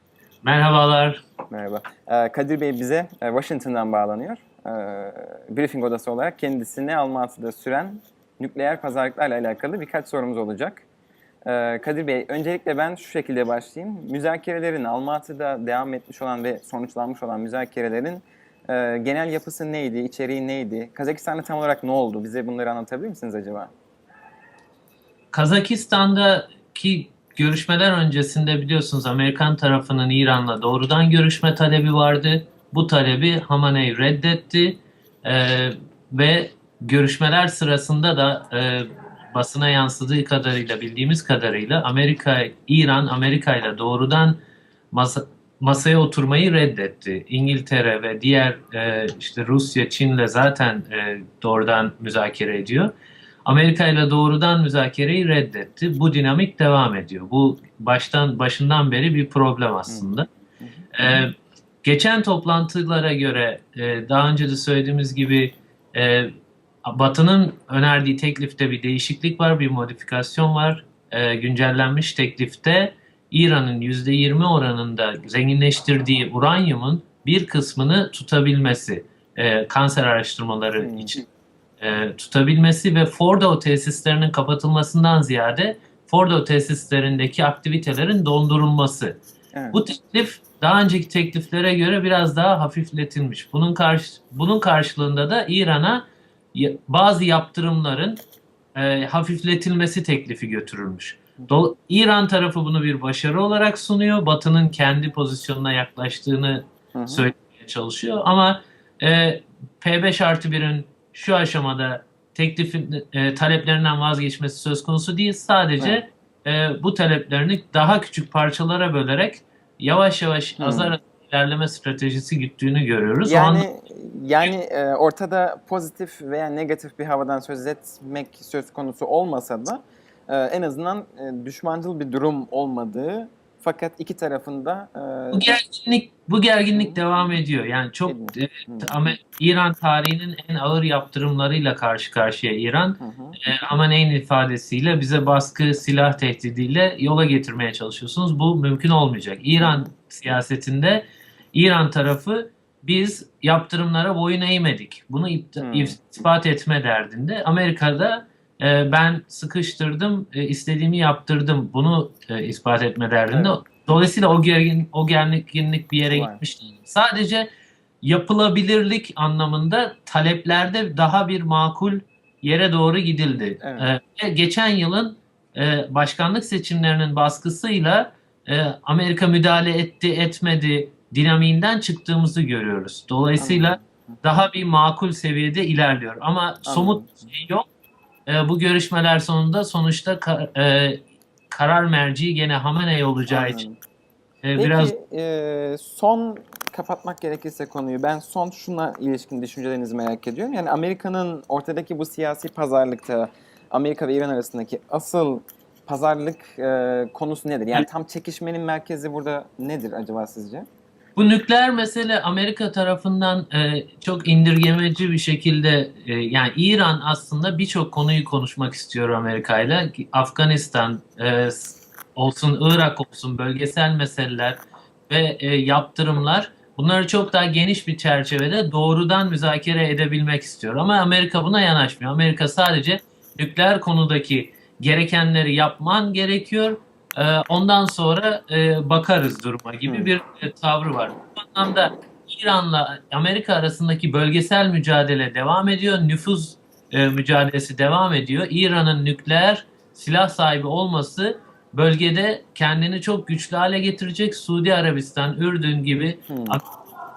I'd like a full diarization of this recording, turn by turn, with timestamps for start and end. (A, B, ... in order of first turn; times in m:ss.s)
0:00.4-0:01.2 A
0:01.5-0:10.8 B
0:11.4-0:23.7 B
0:25.3-0:44.4 A
0:44.9-0:52.9 A
0:53.4-1:00.3 A
1:00.6-1:01.2 B
1:00.9-1:06.3 A
1:06.8-1:21.2 A
1:20.8-1:21.1 B
1:21.8-1:29.2 A
1:29.5-1:29.8 B
1:29.7-1:38.2 A
1:38.7-2:03.6 A
1:46.9-1:47.2 B
2:00.6-2:01.0 B
2:03.2-2:15.6 B
2:15.3-2:47.5 A
2:16.7-2:17.2 B
2:18.0-2:19.1 B
2:23.0-2:23.4 B
2:29.6-2:29.9 B
2:35.6-2:36.0 B
2:43.3-2:43.6 B
2:46.1-2:46.4 B
2:48.0-3:07.7 A
2:53.6-2:53.9 B
3:03.4-3:04.2 B
3:06.7-3:07.2 B
3:08.3-3:13.6 A
3:13.3-3:13.8 B
3:14.4-3:14.9 A
3:14.6-3:30.6 B
3:31.2-4:16.6 A
3:59.9-4:00.1 B
4:16.3-4:16.6 B